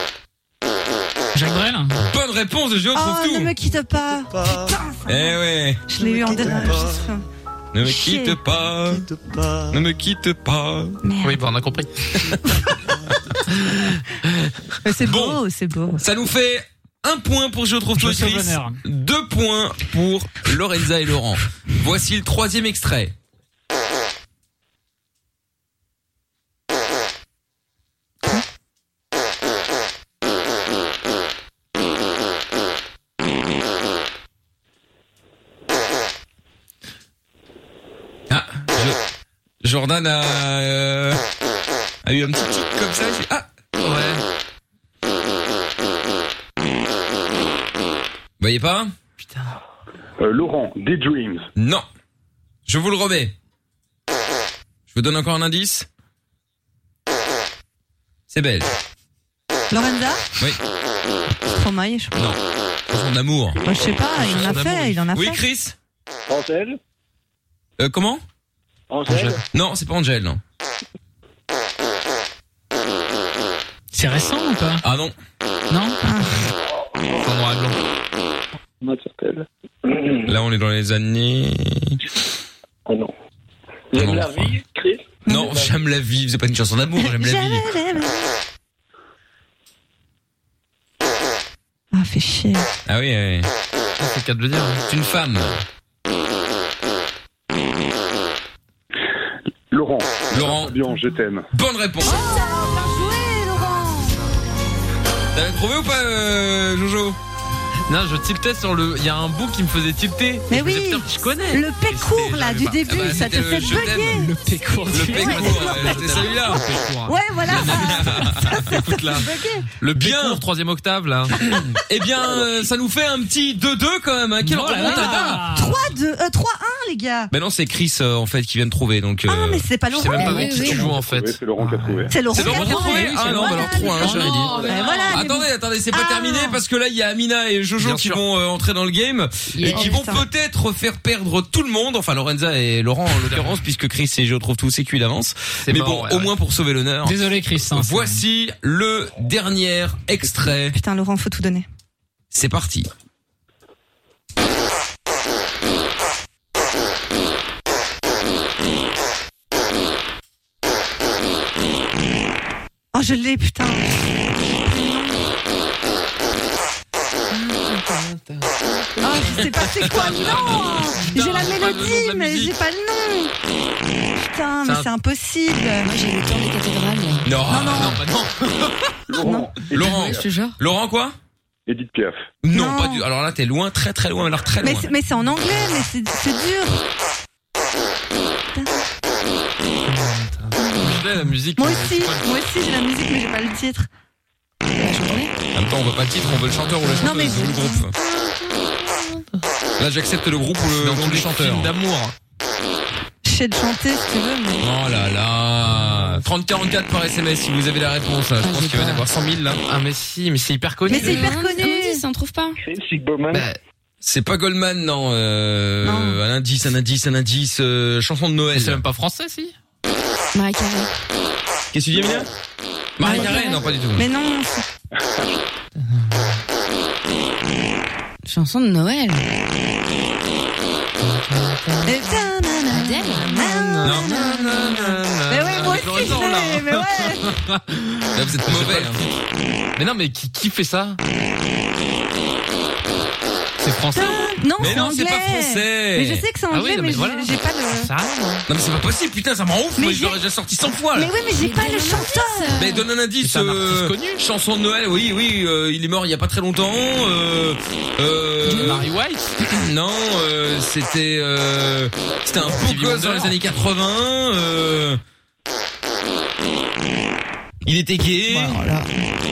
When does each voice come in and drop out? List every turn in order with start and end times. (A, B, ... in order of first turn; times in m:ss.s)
0:01.3-0:02.0 A
0:02.0-0:03.5 B
0:02.9-0:05.4 C
0:05.0-0:05.9 B
0:05.9-0:07.2 C
0:07.7-0:09.0 B
0:07.8-0:08.4 C
0:09.6-0:11.0 B
0:11.0-0:11.4 C
0:11.2-0:11.9 D
0:14.8-0:16.0 C
0:15.0-0:15.4 B
0:16.0-0:23.1 B
0:18.0-0:18.8 A
0:38.3-0:39.0 B
0:39.6-0:41.2 B
0:42.0-0:43.5 B
0:43.8-0:44.2 D
0:48.4-0:48.9 B
0:49.2-0:49.5 D
0:50.2-0:51.5 E
0:51.6-0:51.8 B
0:52.6-0:53.3 B
0:54.9-0:55.9 B
0:58.3-0:58.7 B
0:59.7-1:00.3 C
1:01.4-1:02.2 C
1:02.9-1:03.6 B
1:03.6-1:05.4 C
1:04.0-1:05.0 D
1:05.1-1:05.7 B
1:06.3-1:06.8 F
1:07.8-1:08.2 B
1:08.9-1:09.4 F
1:09.1-1:09.4 D
1:09.5-1:10.4 B
1:13.9-1:14.8 A
1:14.8-1:15.1 B
1:15.7-1:16.0 A
1:16.0-1:16.4 C
1:17.2-1:17.8 D
1:18.8-1:20.3 F
1:20.2-1:22.0 B
1:22.8-1:23.1 F
1:23.9-1:25.7 F
1:23.9-1:24.5 B
1:25.2-1:27.8 B
1:27.0-1:28.2 C
1:31.9-1:32.7 C
1:32.8-1:33.5 B
1:34.0-1:34.8 D
1:34.9-1:35.6 B
1:39.7-1:41.5 E
1:40.3-1:40.7 B
1:41.5-1:42.3 B
1:42.0-1:44.2 C
1:45.3-1:47.2 B
1:47.9-1:53.4 D
1:50.5-1:59.6 C
1:52.8-1:54.3 B
1:54.0-1:55.7 A
1:54.9-1:56.6 B
1:55.1-2:01.4 D
1:57.4-1:58.7 B
1:59.8-2:00.4 B
2:01.5-2:05.4 B
2:04.4-2:05.8 A
2:04.8-2:07.3 C
2:07.3-2:09.7 B
2:09.3-2:10.9 C
2:09.9-2:12.9 D
2:10.1-2:10.9 G
2:10.8-2:12.1 E
2:12.1-2:16.6 C
2:12.3-2:27.2 B
2:12.7-2:14.8 A
2:13.8-2:15.2 D
2:17.8-2:18.2 D
2:19.5-2:20.0 G
2:19.7-2:20.2 C
2:23.3-2:23.6 D
2:25.6-2:26.3 D
2:27.0-2:28.2 A
2:27.7-2:30.8 B
2:30.7-2:31.6 C
2:32.3-2:32.9 B
2:42.9-2:45.3 C
2:47.6-2:52.6 D
2:49.0-2:53.3 C
2:49.9-2:50.5 B
2:54.2-2:55.9 C
2:55.8-2:57.3 G
2:57.2-2:58.3 B
2:57.5-2:58.0 C
2:59.1-3:00.3 E
2:59.2-2:59.5 C
2:59.7-3:00.6 G
2:59.7-3:01.2 B
3:01.7-3:02.3 E
3:02.4-3:04.9 B
3:02.5-3:03.0 C
3:04.6-3:06.8 C
3:08.5-3:08.8 C
3:09.9-3:12.5 D
3:10.6-3:13.9 C
3:14.8-3:15.3 G
3:15.5-3:17.9 B
3:17.0-3:17.8 C
3:19.8-3:21.7 B
3:20.8-3:22.1 D
3:23.2-3:24.6 C
3:24.6-3:29.6 B
3:28.4-3:29.0 G
3:29.5-3:31.3 D
3:30.9-3:32.0 C
3:30.9-3:32.6 G
3:32.6-3:33.5 F
3:33.3-3:33.6 D
3:34.0-3:38.8 B
3:35.8-3:36.2 C
3:38.5-3:39.5 D
3:40.3-3:40.9 G
3:41.7-3:42.3 B
3:43.0-3:44.1 B
3:43.0-3:44.6 C
3:48.2-3:49.2 G
3:51.0-3:51.9 D
3:51.8-3:57.3 C
3:52.7-3:53.3 G
3:53.3-3:59.2 D
3:53.8-3:54.2 B
3:58.1-3:59.0 B
3:59.8-4:01.0 D
4:03.6-4:04.8 D
4:03.9-4:07.9 C
4:04.6-4:06.2 B
4:06.5-4:08.4 D
4:08.5-4:11.1 B
4:09.8-4:10.2 C
4:10.9-4:12.7 C
4:11.3-4:12.8 G
4:12.5-4:18.9 B
4:13.2-4:14.2 D
4:18.4-4:19.3 D
4:19.4-4:25.0 B
4:22.4-4:23.4 D
4:27.6-4:28.6 B
4:28.3-4:28.9 C